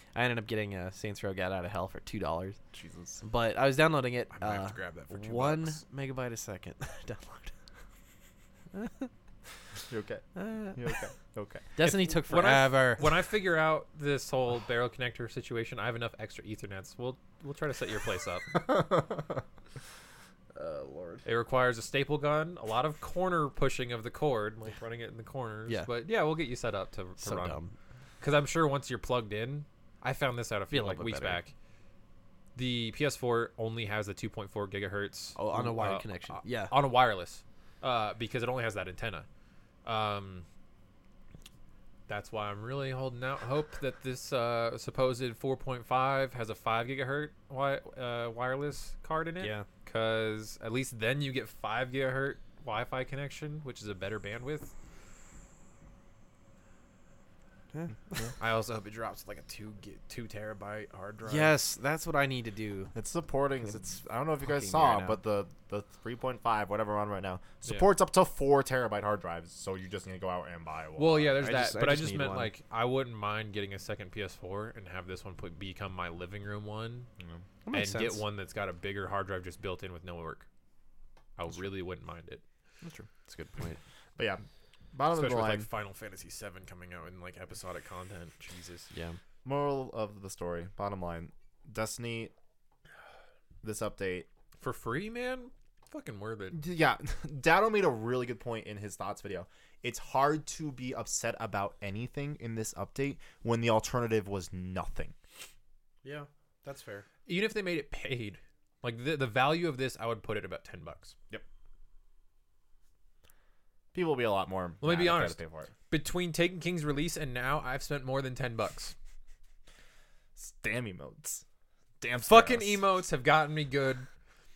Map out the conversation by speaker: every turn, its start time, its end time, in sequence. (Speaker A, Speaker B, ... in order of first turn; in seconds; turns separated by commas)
Speaker A: 0.1-2.6, Speaker B: 2.7-3.2, Speaker A: 3.2-7.5, Speaker C: 4.3-5.8, Speaker A: 8.7-9.1, Speaker B: 9.9-11.7, Speaker A: 10.3-11.0, Speaker A: 11.8-13.2, Speaker C: 11.8-18.6, Speaker B: 18.5-19.4, Speaker A: 20.5-21.2, Speaker C: 21.2-27.6, Speaker A: 27.2-27.8, Speaker C: 28.2-31.5, Speaker A: 30.7-31.4, Speaker C: 32.5-39.3, Speaker A: 35.4-36.7, Speaker C: 39.9-40.5, Speaker C: 42.1-54.7, Speaker A: 49.4-49.7, Speaker A: 57.7-58.3, Speaker C: 58.4-61.5, Speaker A: 61.2-62.9, Speaker B: 62.9-71.3, Speaker A: 64.4-65.2, Speaker C: 71.0-77.1, Speaker A: 71.4-72.5, Speaker A: 77.7-78.2, Speaker C: 77.7-80.5, Speaker C: 81.4-82.4, Speaker B: 82.8-83.1, Speaker A: 83.2-83.8, Speaker B: 84.2-85.7, Speaker C: 85.1-88.9, Speaker A: 88.9-89.2, Speaker B: 89.4-92.3, Speaker B: 93.6-94.3, Speaker C: 94.6-96.6, Speaker B: 96.5-105.2, Speaker A: 106.0-107.1, Speaker C: 107.3-111.2, Speaker B: 113.9-115.7, Speaker C: 114.8-115.4, Speaker C: 115.9-119.0, Speaker B: 120.4-121.4, Speaker B: 122.0-122.8, Speaker C: 122.2-124.1